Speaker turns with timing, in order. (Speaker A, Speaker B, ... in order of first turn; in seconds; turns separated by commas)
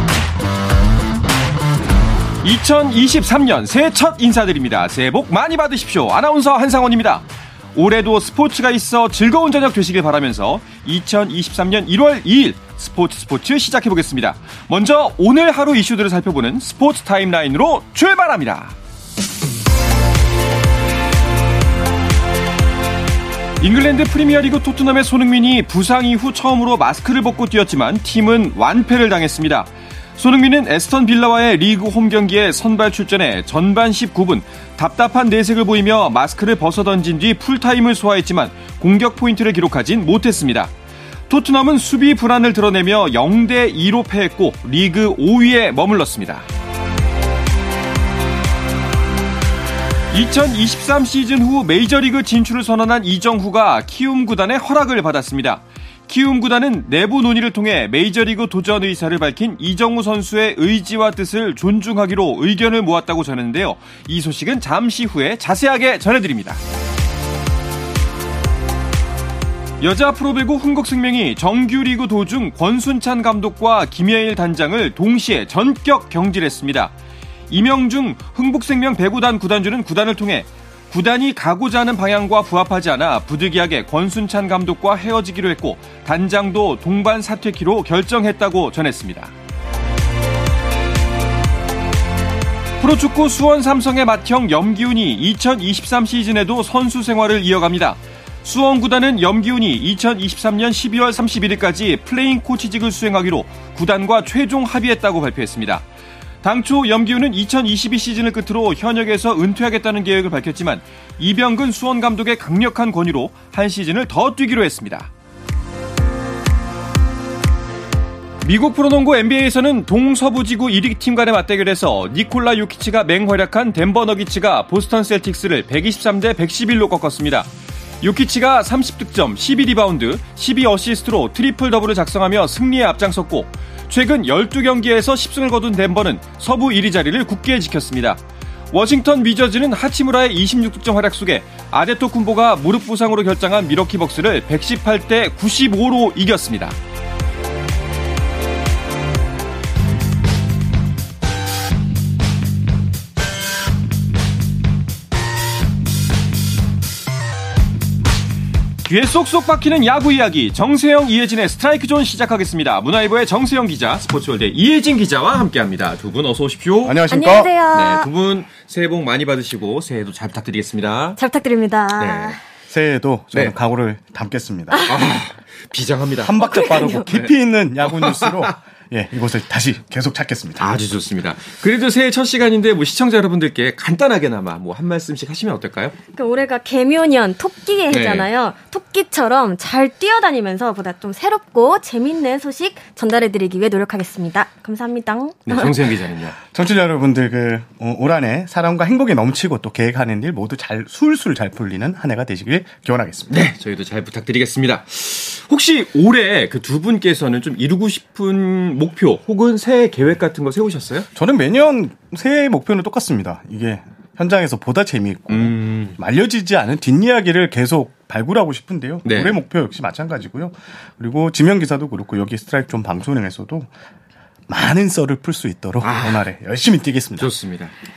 Speaker A: 2.4-18.8, Speaker A: 23.6-40.7, Speaker A: 41.3-46.5, Speaker A: 50.1-66.6, Speaker A: 69.8-76.9, Speaker A: 77.5-89.3, Speaker A: 92.8-105.8, Speaker A: 106.4-115.1, Speaker A: 118.4-127.5, Speaker A: 128.0-138.2, Speaker A: 138.7-146.8, Speaker A: 158.8-167.0, Speaker B: 166.8-167.5, Speaker C: 167.1-168.1, Speaker A: 167.7-171.2, Speaker C: 171.2-172.4, Speaker A: 172.0-172.4, Speaker B: 172.7-174.9, Speaker C: 174.7-175.1, Speaker A: 174.9-176.4, Speaker B: 176.2-180.7, Speaker C: 176.4-177.1, Speaker A: 177.8-178.5, Speaker A: 180.6-185.9, Speaker C: 186.1-195.7, Speaker A: 187.9-188.3, Speaker A: 195.5-196.4, Speaker B: 196.5-203.5, Speaker A: 203.3-211.1, Speaker B: 211.2-223.7, Speaker A: 215.3-216.0, Speaker A: 219.1-219.4, Speaker B: 224.5-227.3, Speaker A: 225.8-226.2, Speaker A: 227.2-227.7